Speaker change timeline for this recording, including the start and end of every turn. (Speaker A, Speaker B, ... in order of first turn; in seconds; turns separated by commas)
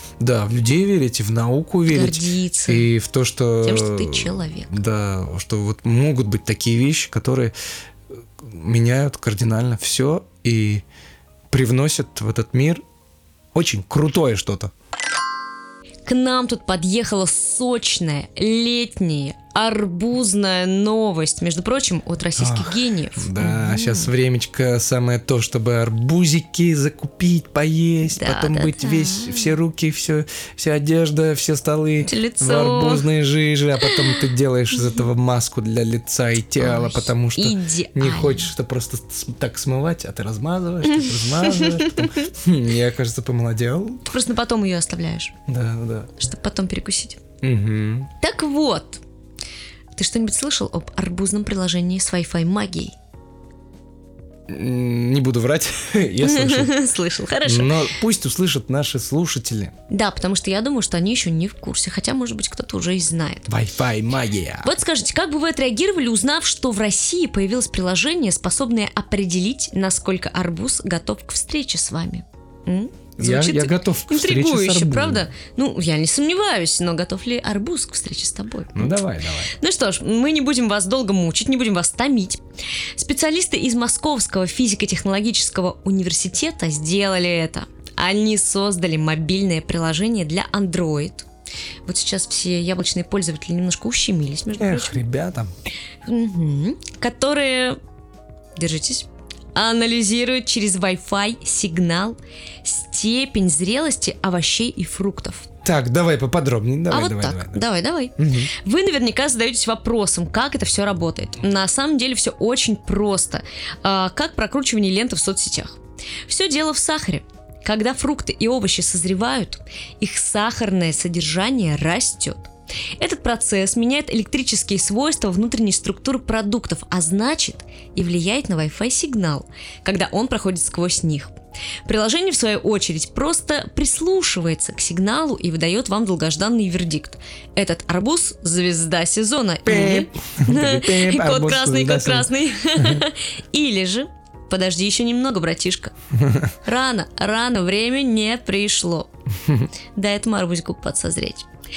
Speaker A: 0.2-7.5, Speaker B: 1.9-2.9, Speaker B: 3.6-4.8, Speaker A: 8.4-10.8, Speaker A: 11.5-12.8, Speaker A: 13.5-14.7, Speaker B: 16.0-24.1, Speaker A: 22.4-44.1, Speaker B: 28.1-29.5, Speaker B: 32.0-33.1, Speaker B: 33.8-34.2, Speaker B: 36.6-38.5, Speaker B: 40.9-42.3, Speaker B: 44.0-45.3, Speaker A: 45.5-46.1, Speaker B: 46.2-47.2, Speaker A: 47.4-48.1, Speaker B: 48.2-49.0, Speaker B: 49.9-53.0, Speaker A: 54.5-56.7, Speaker B: 56.2-57.9, Speaker A: 57.4-59.7, Speaker B: 59.9-63.5, Speaker A: 63.5-64.7, Speaker B: 64.6-82.4, Speaker A: 73.2-75.3, Speaker A: 78.7-79.5, Speaker B: 83.0-91.3, Speaker B: 91.8-95.0, Speaker A: 94.6-95.5, Speaker B: 96.0-97.8, Speaker B: 98.5-105.5, Speaker A: 105.6-107.6, Speaker B: 106.9-145.9, Speaker A: 108.2-108.5, Speaker A: 139.7-143.0, Speaker A: 146.2-146.5, Speaker B: 146.6-149.1, Speaker B: 149.9-151.5